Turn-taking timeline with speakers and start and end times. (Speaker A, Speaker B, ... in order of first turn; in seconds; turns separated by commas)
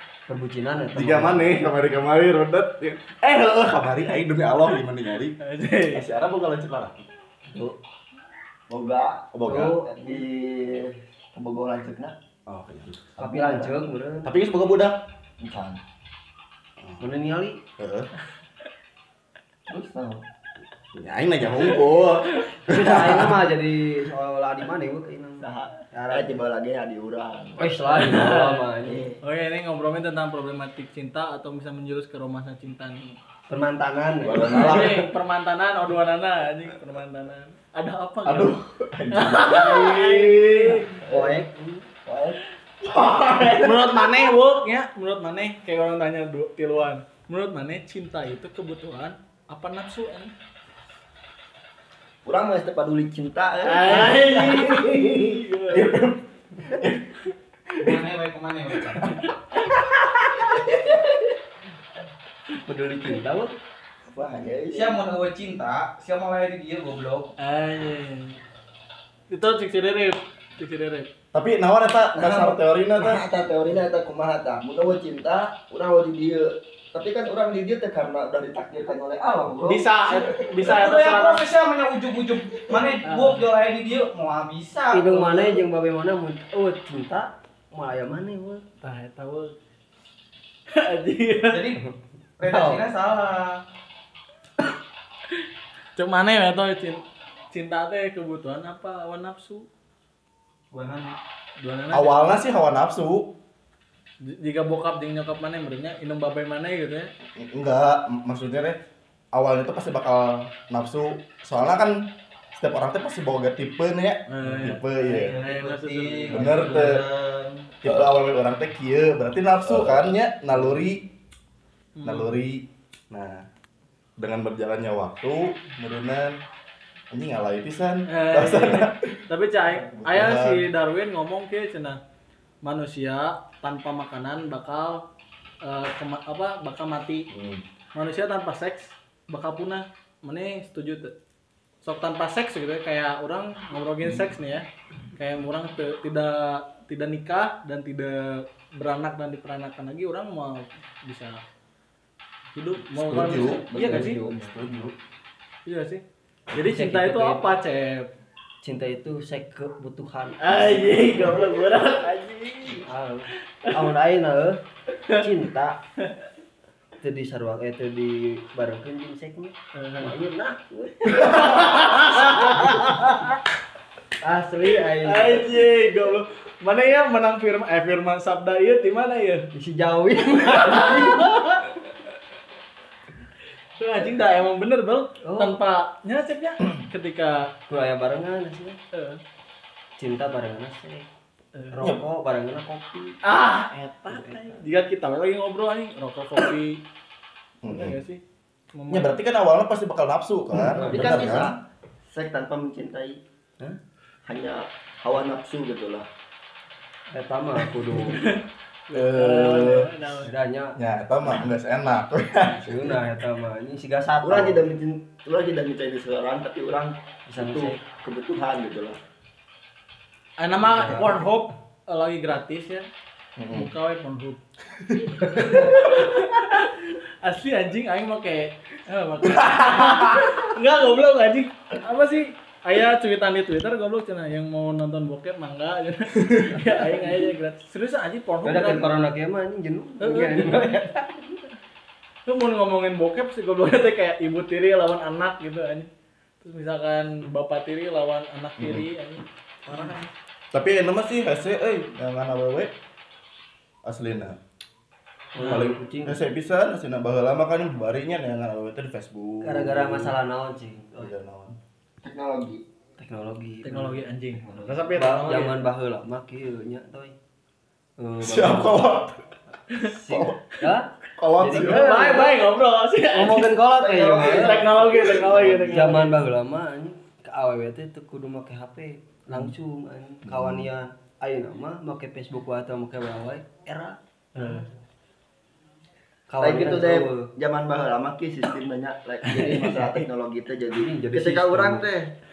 Speaker A: 0.3-1.7, Speaker B: 0.9-7.0, Speaker C: 5.4-6.1, Speaker D: 8.7-12.2, Speaker B: 9.3-9.7, Speaker A: 9.5-10.2, Speaker B: 12.5-13.3, Speaker A: 13.2-14.3, Speaker D: 13.3-13.8, Speaker B: 14.2-15.0, Speaker D: 15.4-15.8, Speaker B: 16.8-17.2, Speaker A: 17.0-17.6, Speaker B: 17.8-18.1, Speaker D: 19.7-20.2, Speaker B: 20.9-23.4, Speaker A: 22.7-26.4, Speaker D: 25.4-28.0, Speaker A: 27.6-29.1, Speaker C: 27.9-28.7, Speaker D: 28.8-29.2, Speaker C: 29.2-33.2, Speaker A: 33.5-34.9, Speaker B: 34.2-35.1, Speaker C: 34.5-38.5, Speaker B: 38.2-40.9, Speaker C: 39.1-41.0, Speaker A: 41.0-41.9, Speaker D: 41.1-41.4, Speaker D: 42.0-42.4, Speaker B: 43.0-43.7, Speaker C: 43.4-50.3, Speaker D: 52.2-54.6, Speaker C: 53.6-55.9, Speaker B: 54.3-57.2, Speaker B: 57.7-58.0, Speaker E: 57.8-59.2, Speaker C: 59.0-60.6, Speaker D: 60.6-61.3, Speaker A: 62.6-63.5, Speaker D: 64.1-65.0, Speaker E: 64.7-67.3, Speaker C: 67.4-68.4, Speaker C: 69.3-71.1, Speaker B: 71.3-73.2, Speaker D: 72.2-80.6, Speaker C: 79.7-81.5, Speaker E: 80.6-85.6, Speaker C: 83.0-83.4, Speaker A: 84.9-88.6, Speaker C: 88.8-89.5, Speaker C: 90.7-91.6, Speaker E: 91.5-91.8, Speaker E: 92.4-93.6, Speaker A: 92.5-92.8, Speaker C: 96.0-99.7, Speaker E: 100.7-101.2, Speaker C: 101.6-102.2, Speaker B: 101.9-103.3, Speaker C: 104.2-107.1, Speaker B: 107.3-108.8, Speaker B: 109.3-115.4, Speaker C: 114.3-116.8, Speaker A: 114.5-114.8, Speaker A: 115.3-116.6, Speaker B: 116.3-117.0, Speaker E: 116.3-117.7, Speaker B: 117.8-121.1, Speaker C: 122.0-122.3, Speaker B: 122.0-123.5, Speaker B: 124.2-126.4, Speaker B: 127.1-130.7, Speaker C: 128.1-132.0, Speaker C: 132.6-135.1, Speaker C: 135.6-137.3, Speaker B: 137.3-137.6, Speaker C: 137.9-141.1, Speaker C: 141.8-151.4, Speaker B: 144.0-144.3, Speaker C: 152.6-154.2, Speaker B: 152.9-154.9, Speaker A: 153.1-154.9, Speaker C: 155.7-158.1, Speaker A: 156.6-157.5, Speaker A: 158.6-161.6, Speaker C: 160.4-162.9, Speaker A: 162.8-165.8, Speaker A: 167.0-173.1, Speaker C: 169.8-170.2, Speaker C: 171.1-173.4, Speaker A: 174.2-175.8, Speaker C: 174.9-179.5, Speaker A: 179.5-181.3, Speaker C: 180.4-181.7, Speaker C: 183.8-187.5, Speaker A: 185.2-185.6, Speaker A: 187.7-188.8, Speaker C: 188.9-189.2, Speaker A: 190.0-191.1, Speaker A: 191.7-193.2, Speaker C: 193.2-196.8, Speaker A: 194.1-194.6, Speaker B: 197.7-197.9, Speaker C: 197.7-198.2, Speaker C: 198.7-199.2, Speaker B: 198.9-201.6, Speaker D: 200.7-203.2, Speaker A: 200.7-201.3, Speaker D: 204.3-206.1, Speaker A: 207.1-208.2, Speaker C: 208.0-210.3, Speaker B: 208.9-210.0, Speaker A: 210.2-210.8, Speaker B: 210.8-213.0, Speaker A: 212.6-214.6, Speaker D: 214.2-219.0, Speaker A: 217.3-217.8, Speaker C: 220.4-222.9, Speaker D: 220.7-221.1, Speaker D: 223.4-223.7, Speaker C: 223.5-224.4, Speaker B: 224.9-225.7, Speaker C: 225.2-238.9, Speaker B: 229.3-230.3, Speaker A: 236.5-237.3, Speaker A: 238.4-241.2, Speaker C: 240.0-240.9, Speaker C: 242.3-245.9, Speaker C: 246.4-250.1, Speaker B: 248.6-248.9, Speaker B: 250.5-252.7, Speaker B: 253.8-254.4, Speaker A: 255.3-256.2, Speaker B: 255.4-260.2, Speaker C: 255.4-255.7, Speaker A: 259.4-261.1, Speaker B: 261.0-261.6, Speaker D: 262.0-262.6, Speaker A: 263.0-267.1, Speaker C: 263.6-265.6, Speaker A: 268.0-268.9, Speaker B: 268.2-269.2, Speaker A: 269.8-272.4, Speaker B: 271.2-272.1, Speaker C: 271.6-276.2, Speaker A: 273.1-284.7, Speaker D: 273.8-274.8, Speaker B: 280.2-280.7, Speaker C: 284.4-284.6, Speaker A: 286.3-287.3, Speaker D: 286.4-292.1, Speaker C: 289.4-290.0, Speaker A: 290.7-291.9